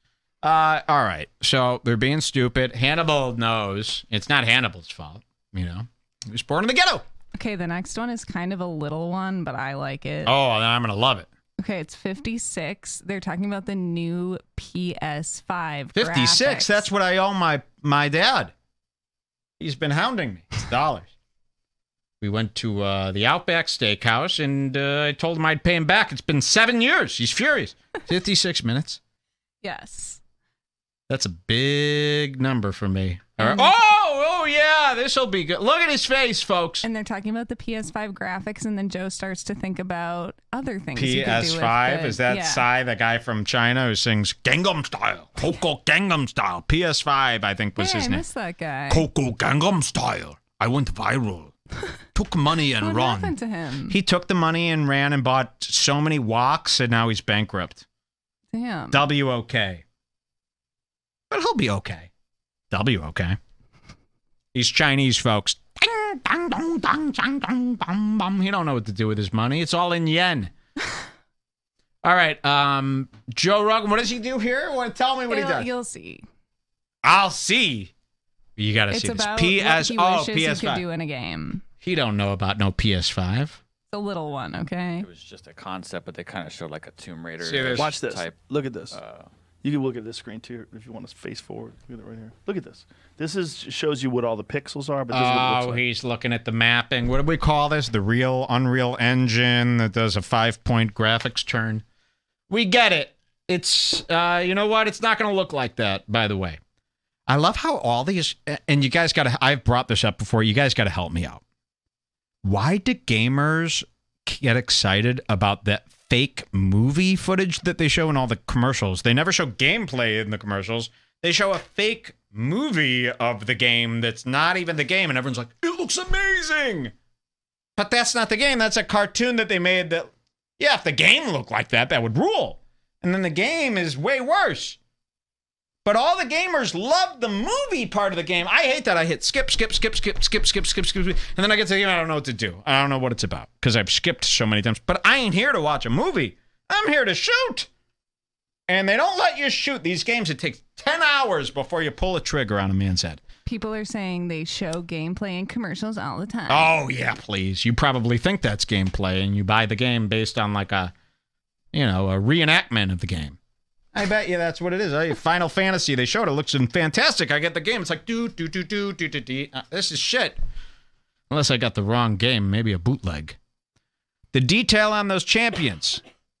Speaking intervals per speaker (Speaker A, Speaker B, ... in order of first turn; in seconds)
Speaker A: 0.4-7.0, 10.2-11.3, 15.9-18.5, 19.6-21.1, 22.2-29.0, 31.1-36.8, 41.0-48.2, 48.9-51.5, 52.1-53.3, 53.9-57.8, 58.9-59.8, 61.3-62.1, 62.7-63.4, 64.5-70.5, 72.0-75.7, 77.0-77.9, 78.6-80.8, 81.8-83.6, 87.4-87.9, 95.1-101.8, 102.5-106.6, 107.3-111.4, 112.4-126.9, 127.8-134.8, 135.8-147.7, 148.7-153.2, 156.5-160.9, 161.7-163.4, 163.9-170.4, 171.3-173.4, 174.3-176.0
Speaker B: 7.3-10.3, 11.6-16.8, 29.6-30.2, 33.4-33.7, 36.8-42.6, 47.8-49.1, 52.8-54.0, 58.5-59.0, 75.3-76.2, 78.9-81.6, 83.9-85.0, 153.4-156.7
Speaker C: 85.0-89.3
Speaker D: 87.8-89.0, 89.6-95.8